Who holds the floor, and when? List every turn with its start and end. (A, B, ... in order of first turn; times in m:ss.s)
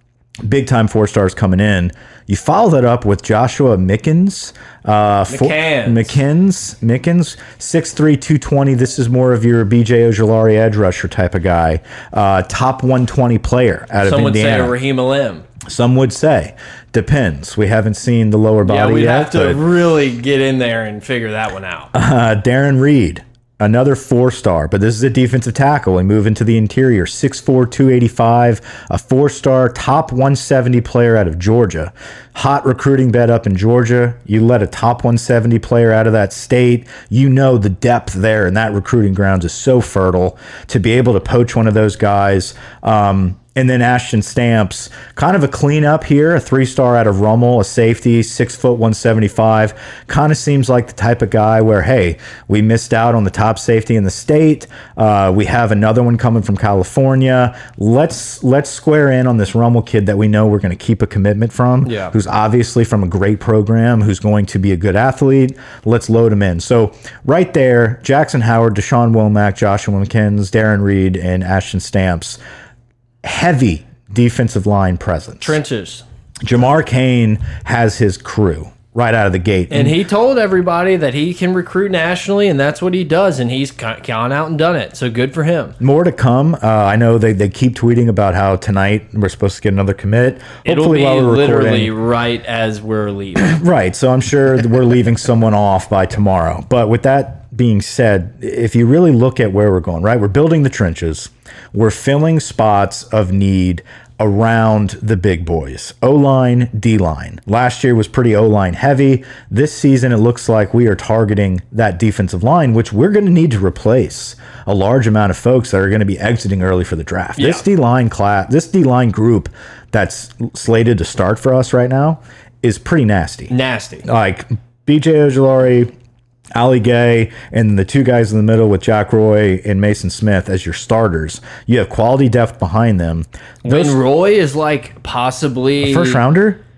0:00.4-0:14.8 A
0:05.3-0:06.2 B
0:14.0-0:15.4 B
0:15.6-0:19.6 A
0:18.6-0:21.9 B
0:21.9-1:12.4 A
1:01.8-1:02.1 B
1:13.2-1:15.6 A
1:15.4-1:16.0 B
1:16.4-1:20.0 A
1:19.7-1:25.8 B
1:25.8-1:31.9 A
1:30.6-1:33.6 B
1:33.4-2:03.5 A
1:57.4-1:57.6 B
2:03.5-2:04.1 B
2:04.0-2:05.9 A
2:06.6-2:14.0 A
2:13.6-2:16.2 B
2:15.8-2:16.6 A